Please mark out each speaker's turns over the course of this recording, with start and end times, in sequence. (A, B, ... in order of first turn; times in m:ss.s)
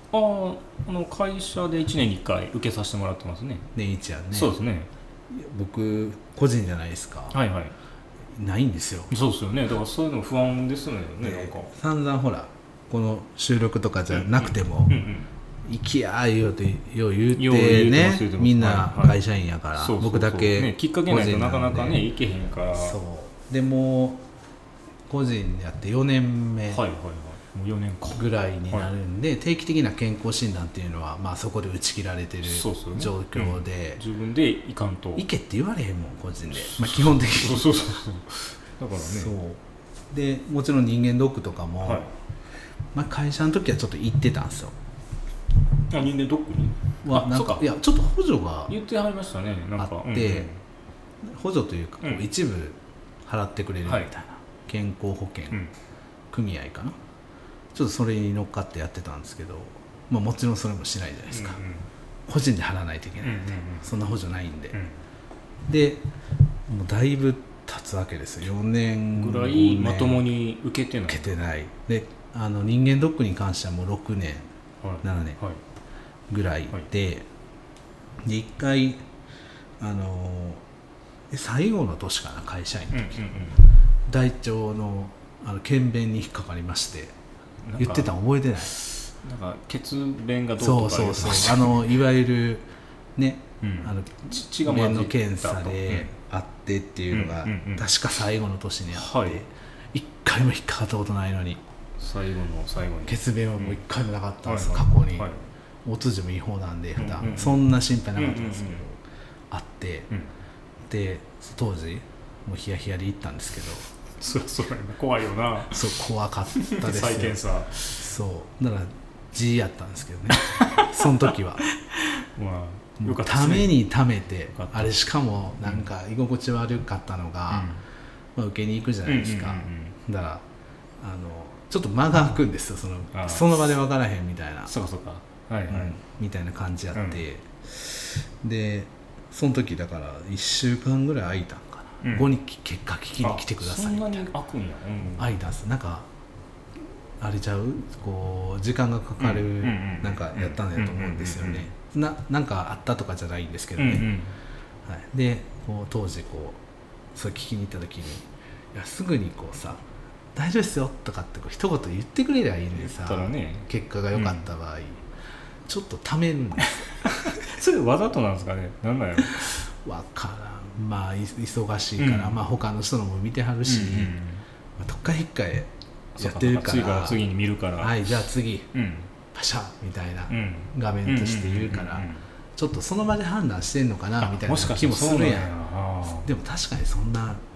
0:00.1-0:03.6 A
0:03.7-0:04.6 B
0:04.3-0:04.9 A
0:05.3-0:07.4 B
0:07.3-0:07.7 A
0:08.3-0:09.1 B
0:09.1-0:11.7 A
0:11.2-0:15.0 B
0:14.1-0:15.3 A
0:15.6-0:22.0 B
0:17.4-0:19.2 A
0:19.7-0:23.0 A
0:22.7-0:24.2 B
0:25.1-0:26.8 B
0:26.7-0:28.9 A
0:28.1-0:34.0 B
0:32.4-0:35.3 A
0:35.2-0:38.0 B
0:36.5-0:39.3 A
0:39.0-0:42.1 B
0:41.8-0:42.1 A
0:42.9-0:44.7 B
0:45.9-0:47.7 A
0:47.0-0:48.7 B
0:48.7-0:50.6 A
0:49.8-0:50.5 B
0:51.2-0:55.6 B
0:52.0-0:52.3 A
0:53.8-0:54.1 A
0:56.3-0:57.0 B
0:57.7-1:01.6 B
1:01.3-1:01.8 A
1:02.3-1:04.8 B
1:03.2-1:03.9 A
1:05.7-1:06.0 B
1:06.7-1:10.3 B
1:09.1-1:11.4 A
1:11.1-1:14.4 B
1:14.8-1:15.6 A
1:15.0-1:15.4 B
1:16.3-1:17.3 B
1:18.2-1:19.0 B
1:19.8-1:20.6 B
1:21.3-1:23.3 B
1:22.9-1:23.7 A
1:24.1-1:27.1 B
1:27.6-1:32.0 A
1:27.8-1:28.8 B
1:30.6-1:41.6 B
1:33.6-1:36.1 A
1:37.1-1:37.9 A
1:38.9-1:39.4 A
1:42.0-1:43.8 A
1:43.0-1:45.3 B
1:44.4-1:45.4 A
1:45.8-1:49.0 B
1:47.0-1:48.8 A
1:49.5-1:50.1 B
1:50.9-1:53.8 B
1:54.2-1:56.0 A
1:55.7-1:57.4 B
1:56.6-1:58.1 A
1:58.0-2:01.6 B
2:00.3-2:01.3 A
2:01.8-2:03.8 A
2:03.0-2:07.7 B
2:04.5-2:05.0 A
2:07.5-2:07.8 A
2:08.4-2:10.4 B
2:09.0-2:10.0 A
2:11.0-2:14.7 B
2:13.1-2:13.7 A
2:14.7-2:16.0 A
2:15.7-2:24.3 B
2:16.9-2:17.2 A
2:22.0-2:22.3 A
2:23.2-2:25.4 A
2:25.2-2:26.1 B
2:27.2-2:34.1 B
2:29.2-2:31.7 A
2:33.8-2:34.4 A
2:34.8-2:36.6 B
2:37.1-2:39.8 B
2:40.3-2:45.0 B
2:42.7-2:44.5 A
2:45.6-2:47.4 B
2:47.0-2:49.6 A
2:49.4-2:54.2 B
2:52.0-2:52.4 A
2:53.6-2:54.4 A
2:54.8-2:57.2 B
2:56.2-2:58.1 A
2:57.8-2:58.7 B
2:58.7-2:59.1 A
2:59.3-3:07.4 B
3:00.3-3:02.2 A
3:04.2-3:06.3 A